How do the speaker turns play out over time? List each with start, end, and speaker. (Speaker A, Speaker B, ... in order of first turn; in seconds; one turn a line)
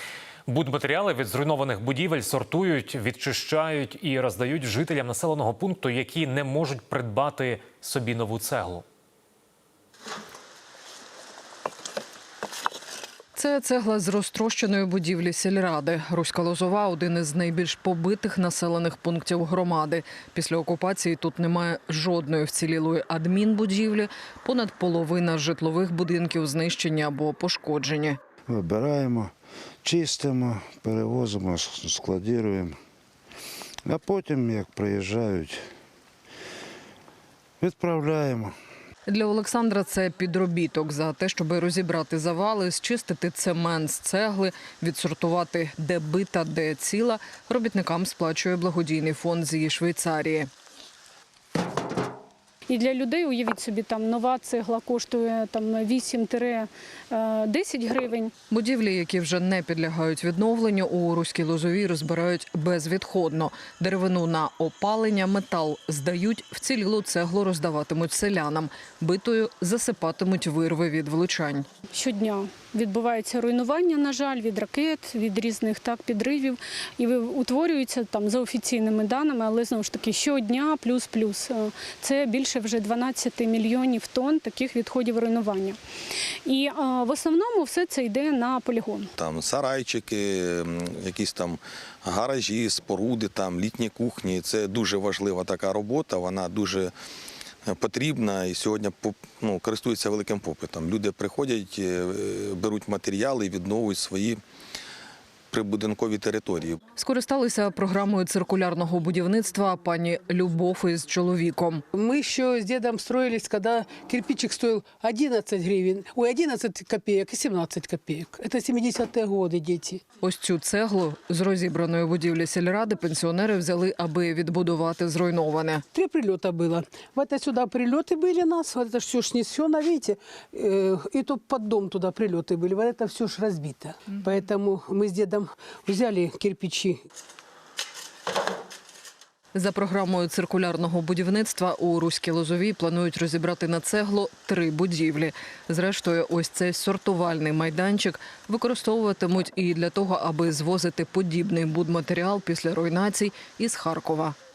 Speaker A: 0.5-8.8
Speaker B: 13.3-28.2
Speaker C: 28.5-29.3
Speaker C: 29.8-32.8
Speaker C: 33.9-35.6
Speaker C: 37.6-38.5
Speaker B: 39.1-50.5
Speaker D: 52.7-58.3
Speaker B: 58.5-71.7
Speaker D: 71.9-85.8
Speaker D: 86.5-89.1
Speaker E: 89.2-96.9
Speaker E: 97.7-104.4
Speaker E: 105.5-106.8
Speaker B: 107.0-111.8
Speaker F: 112.0-120.0
Speaker B: 120.2-125.8
Speaker F: 125.9-137.0
Speaker B: 139.5-154.3